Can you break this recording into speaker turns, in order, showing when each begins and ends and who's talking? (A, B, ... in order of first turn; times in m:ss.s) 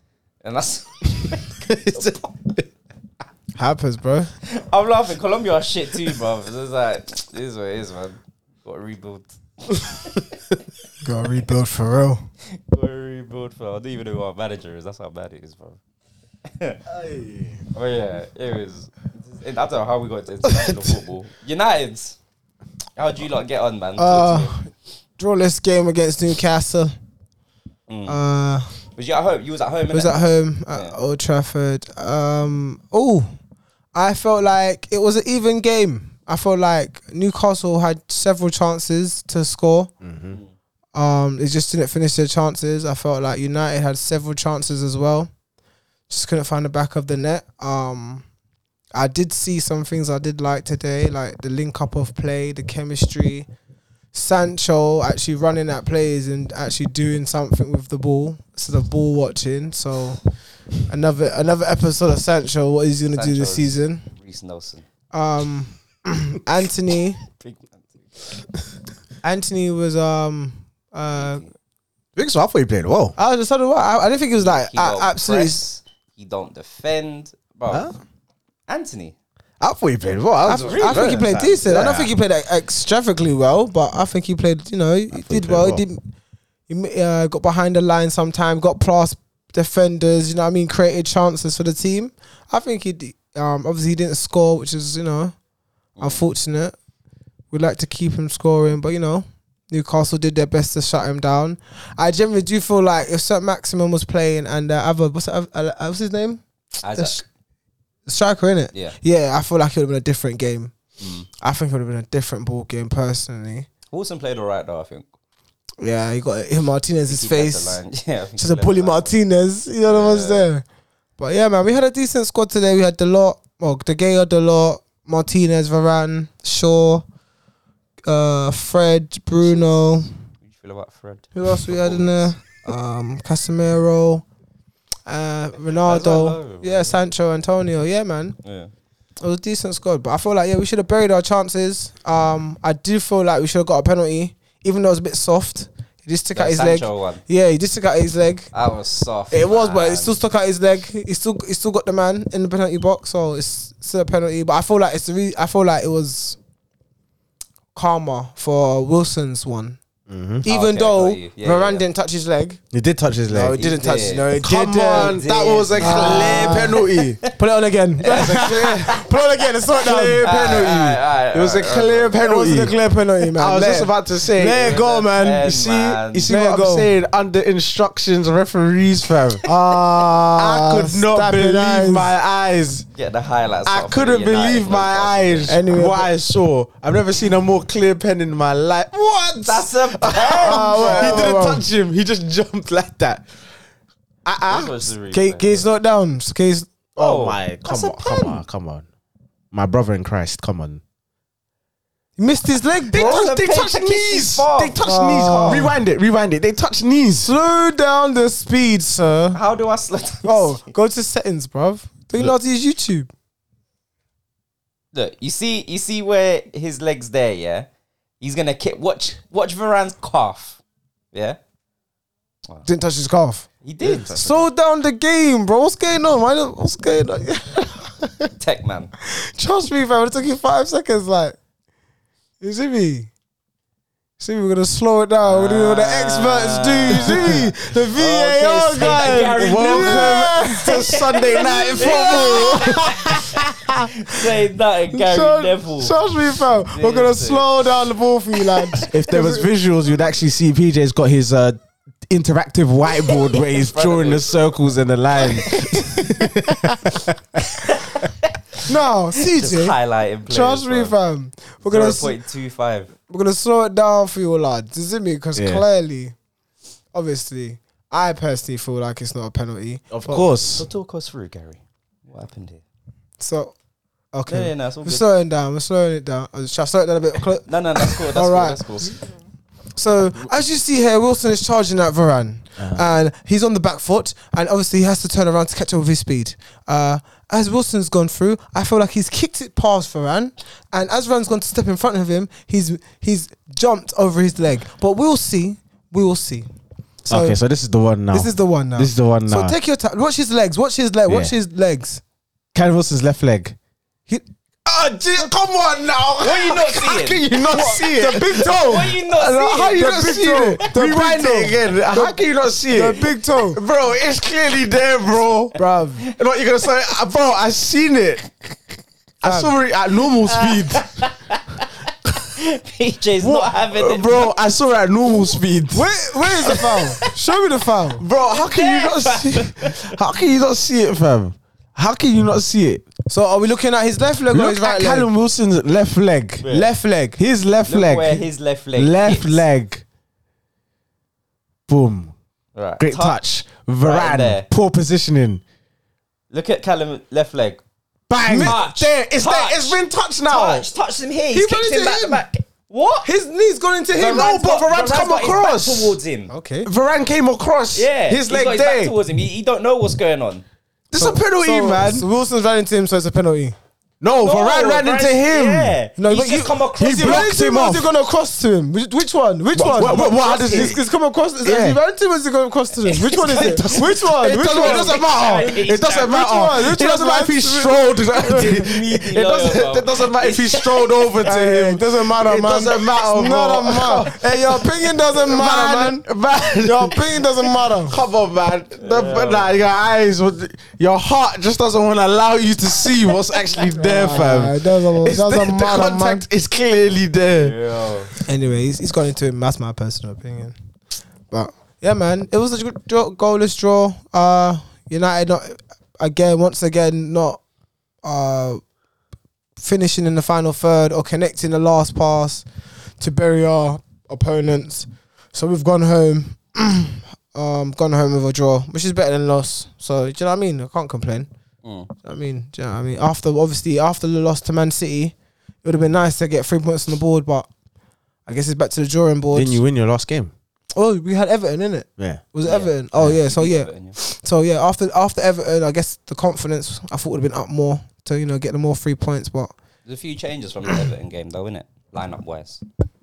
0:00.4-0:02.3 A
0:01.7-0:02.6 B
0:03.6-0:04.3 C
0:04.5-0:10.3 A
0:11.0-0:12.2 C
0:12.7-0:15.8 A
0:16.9-0:17.6 B
0:17.7-0:22.2 A
0:23.0-0:24.6 A
0:24.0-0:24.7 C
0:25.2-0:26.9 C
0:27.9-0:28.2 A
0:28.1-0:28.8 C
0:29.0-0:31.0 A
0:29.9-0:33.3 C
0:33.9-0:39.9 C
0:40.0-0:40.4 B
0:41.0-0:45.3 C
0:46.1-0:48.2 C
0:48.9-0:53.5 C
0:54.1-1:00.2 C
1:00.8-1:04.0 C
1:03.2-1:04.8 A
1:05.1-1:07.2 C
1:07.4-1:08.2 A
1:09.2-1:11.4 C
1:11.1-1:11.5 A
1:12.2-1:13.2 B
1:13.2-1:15.6 C
1:14.4-1:17.9 A
1:17.7-1:18.0 B
1:18.7-1:19.2 A
1:19.6-1:22.1 B
1:20.5-1:26.0 C
1:25.1-1:25.8 B
1:26.7-1:35.3 C
1:36.0-1:36.8 C
1:37.5-1:46.4 C
1:46.8-1:47.2 A
1:47.0-1:47.2 C
1:48.1-1:50.8 C
1:51.0-1:51.3 A
1:51.4-1:53.7 C
1:53.9-1:55.1 A
1:55.8-1:57.8 C
1:57.1-1:59.2 A
1:58.4-2:00.6 C
1:59.9-2:00.5 A
2:01.2-2:07.0 C
2:08.1-2:10.1 C
2:09.4-2:09.7 A
2:10.4-2:12.3 A
2:11.4-2:14.2 C
2:15.1-2:18.4 C
2:15.9-2:17.0 A
2:18.4-2:18.7 A
2:19.2-2:28.5 C
2:26.3-2:27.2 A
2:28.5-2:30.2 A
2:29.3-2:36.4 C
2:37.8-2:39.8 C
2:40.1-2:40.4 B
2:40.4-2:42.6 C
2:40.4-2:41.8 A
2:42.7-2:43.7 B
2:43.3-2:45.2 C
2:43.6-2:44.3 A
2:44.4-2:47.2 B
2:44.9-2:47.3 A
2:45.8-2:46.8 C
2:47.3-2:50.5 C
2:48.0-2:49.1 A
2:48.1-2:49.0 B
2:49.8-2:54.8 B
2:50.2-2:52.2 A
2:52.2-2:55.5 C
2:54.4-2:56.3 A
2:55.4-2:59.5 B
2:56.2-2:56.9 C
2:59.5-3:02.1 C
3:00.4-3:02.9 B
3:03.0-3:05.6 A
3:03.7-3:13.3 B
3:05.5-3:06.1 C
3:09.4-3:11.4 A
3:10.4-3:11.6 C
3:14.2-3:14.9 B
3:14.5-3:15.6 A
3:15.1-3:16.7 C
3:17.0-3:18.8 B
3:17.0-3:18.4 A
3:19.5-3:20.8 B
3:22.2-3:23.1 C
3:22.9-3:25.7 A
3:22.9-3:27.3 B
3:24.8-3:25.8 C
3:27.2-3:29.4 C
3:29.3-3:30.7 A
3:30.2-3:33.1 C
3:34.9-3:37.7 A
3:38.2-3:40.6 A
3:41.1-3:41.4 A
3:42.6-3:43.5 C
3:43.6-3:44.4 A
3:44.0-3:48.3 C
3:48.4-3:48.9 A
3:49.0-3:51.4 C
3:52.4-3:53.1 C
3:54.2-4:03.9 C
3:55.2-4:06.0 A
3:56.9-3:57.4 B
3:59.0-4:03.4 B
4:04.9-4:09.5 C
4:06.7-4:07.6 A
4:08.9-4:17.2 B
4:13.3-4:14.6 A
4:15.4-4:16.0 A
4:17.6-4:18.4 A
4:18.6-4:19.8 C
4:19.3-4:21.0 A
4:20.3-4:22.2 C
4:21.6-4:22.9 A
4:23.1-4:26.2 C
4:25.4-4:25.6 B
4:26.9-4:30.3 C
4:29.9-4:30.7 B
4:30.6-4:32.6 A
4:33.2-4:33.6 C
4:34.1-4:39.0 C
4:34.3-4:35.0 A
4:37.5-4:39.0 A
4:39.8-4:56.5 C
4:42.6-4:42.8 B
4:57.0-4:57.4 C
4:57.1-4:59.6 B
4:58.1-5:02.0 C
5:01.1-5:01.3 B
5:02.5-5:03.6 B
5:04.7-5:15.6 B
5:06.2-5:07.2 A
5:07.4-5:13.6 C
5:08.6-5:09.8 A
5:15.6-5:16.0 C
5:16.1-5:18.5 B
5:19.2-5:20.8 B
5:19.2-5:19.6 C
5:20.2-5:24.3 A
5:23.3-5:26.6 B
5:25.7-5:28.0 C
5:26.5-5:27.1 A
5:28.0-5:32.8 B
5:28.2-5:29.9 A
5:33.1-5:35.1 C
5:34.3-5:36.5 B
5:36.4-5:36.7 A
5:36.5-5:37.2 C
5:37.2-5:38.2 B
5:37.7-5:39.4 A
5:38.8-5:39.8 B
5:41.7-5:42.1 B
5:42.6-5:43.2 A
5:42.8-5:45.4 B
5:43.8-5:44.5 A
5:46.3-5:47.6 A
5:48.1-5:50.7 B
5:48.2-5:48.7 C
5:48.3-5:53.1 A
5:51.3-5:52.2 C
5:53.0-5:54.4 C
5:54.0-5:56.0 B
5:54.0-5:56.3 A
5:56.3-5:56.7 C
5:56.6-5:59.0 B
5:57.7-6:00.4 A
6:00.9-6:02.1 B
6:01.0-6:03.6 C
6:04.0-6:05.8 B
6:04.2-6:07.3 A
6:06.0-6:18.7 C
6:06.8-6:07.9 B
6:09.6-6:10.8 B
6:09.8-6:10.8 A
6:11.4-6:11.8 B
6:12.9-6:16.3 A
6:13.7-6:37.6 B
6:18.3-6:20.9 A
6:21.2-6:28.0 C
6:28.8-6:29.5 A
6:33.8-6:36.2 C
6:37.3-6:38.1 A
6:38.2-6:40.6 C
6:41.3-6:47.4 C
6:48.0-6:48.6 C
6:49.6-6:52.4 C
6:53.0-7:01.3 C
7:01.6-7:01.9 A
7:02.0-7:07.5 C
7:08.3-7:09.6 C
7:09.3-7:10.3 B
7:10.7-7:19.5 C
7:12.0-7:12.2 B
7:12.4-7:14.0 A
7:19.9-7:22.6 A